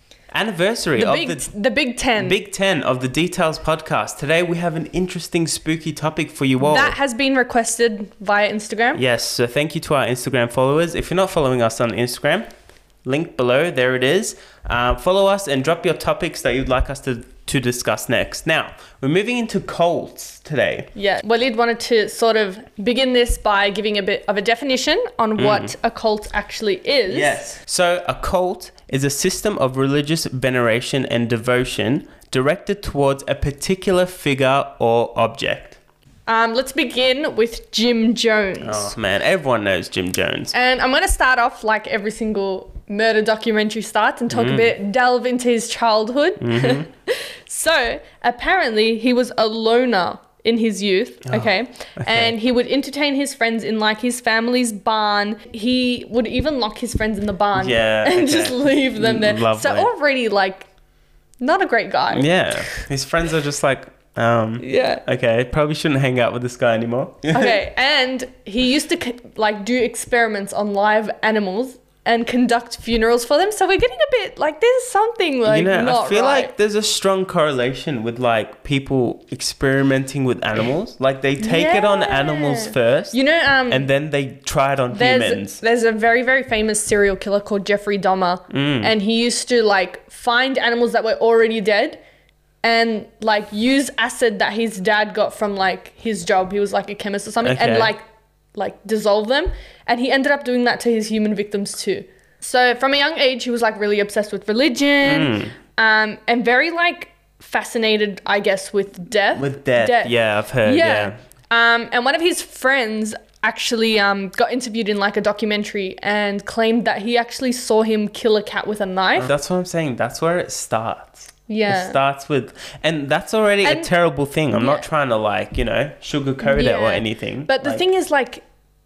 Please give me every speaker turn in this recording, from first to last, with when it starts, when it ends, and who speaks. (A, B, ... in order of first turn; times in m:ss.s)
0:00.3-0:01.5 A
0:01.0-0:02.4 B
0:02.2-0:06.9 A
0:06.6-0:09.0 B
0:08.9-0:12.5 A
0:13.0-0:20.9 A
0:20.9-0:27.4 B
0:25.4-0:25.7 A
0:27.1-0:35.8 A
0:36.3-0:38.9 B
0:38.6-0:40.5 A
0:40.5-1:00.7 B
0:44.3-0:44.7 A
0:46.4-0:46.9 A
0:51.3-0:52.3 A
0:57.6-0:59.9 A
1:01.4-1:02.8 B
1:02.1-1:07.5 A
1:04.6-1:05.0 B
1:07.3-1:16.5 B
1:15.4-1:23.2 A
1:21.4-1:23.9 B
1:23.7-1:25.6 A
1:24.9-1:32.0 B
1:28.5-1:28.9 A
1:32.6-1:38.0 B
1:37.4-1:37.9 A
1:38.5-1:59.3 B
1:45.0-1:45.5 A
1:49.3-1:51.1 A
1:59.2-2:07.8 A
2:01.5-2:02.0 B
2:03.6-2:03.9 B
2:04.5-2:04.8 B
2:06.4-2:08.4 B